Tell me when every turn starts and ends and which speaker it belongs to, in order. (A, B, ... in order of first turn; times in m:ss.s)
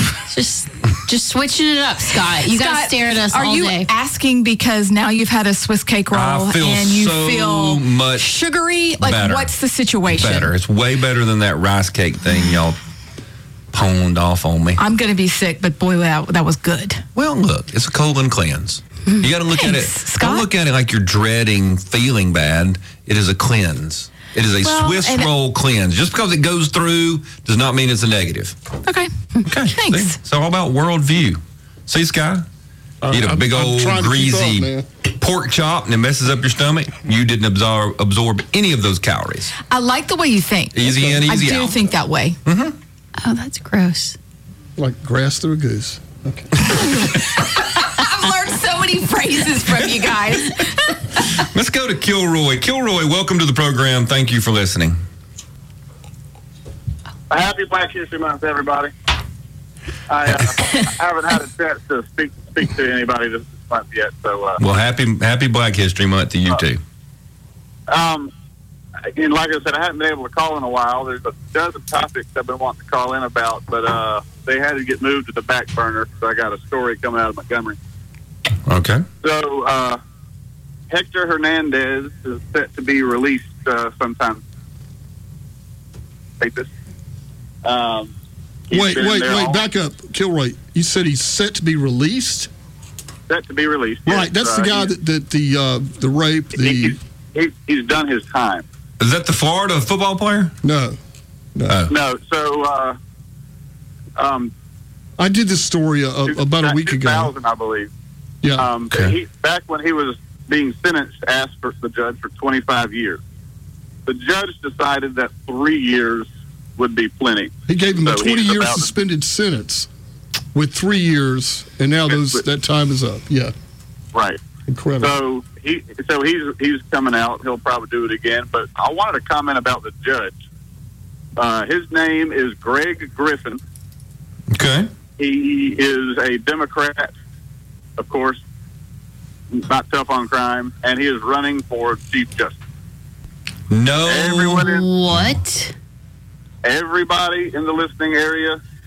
0:00.3-0:03.9 A
0:02.5-0:10.5 B
0:06.1-0:08.3 C
0:09.0-0:09.5 C
0:10.1-0:12.8 C
0:13.7-0:14.8 C
0:14.8-0:17.0 B
0:17.2-0:28.6 C
0:19.6-0:20.5 B
0:24.6-0:25.2 A
0:28.8-0:30.2 B
0:29.4-0:32.5 C
0:33.0-0:34.9 D
0:33.1-0:39.5 C
0:39.7-0:42.4 B
0:40.7-0:41.8 C
0:42.4-0:42.8 C
0:43.2-0:44.2 A
0:44.8-0:46.6 D
0:46.7-0:51.0 B
0:51.4-0:55.0 C
0:57.3-0:58.9 E
1:00.1-1:04.6 E
1:04.6-1:06.8 C
1:07.9-1:08.3 E
1:09.1-1:17.8 E
1:18.7-1:19.0 C
1:19.2-1:20.0 E
1:20.9-1:24.4 E
1:26.4-1:26.7 E
1:27.6-1:28.1 E
1:28.7-1:29.6 E
1:28.7-1:32.5 D
1:33.3-1:34.9 E
1:34.1-1:37.0 D
1:36.5-1:38.6 E
1:39.0-1:40.5 C
1:40.6-1:41.0 D
1:41.7-1:42.0 C
1:41.9-1:43.0 E
1:44.2-1:44.5 E
1:45.2-1:47.3 D
1:46.3-1:47.9 E
1:48.4-1:48.7 D
1:48.6-1:53.2 E
1:54.1-1:58.9 E
1:57.7-1:59.9 D
2:00.5-2:03.5 D
2:02.1-2:02.4 E
2:04.1-2:04.4 E
2:04.7-2:05.2 D
2:05.0-2:10.4 E
2:11.4-2:13.6 E
2:14.5-2:14.9 C
2:15.2-2:17.1 E
2:18.0-2:18.4 E
2:19.5-2:22.6 E
2:23.7-2:25.4 C
2:24.1-2:24.9 E
2:24.6-2:25.7 A
2:26.6-2:28.6 E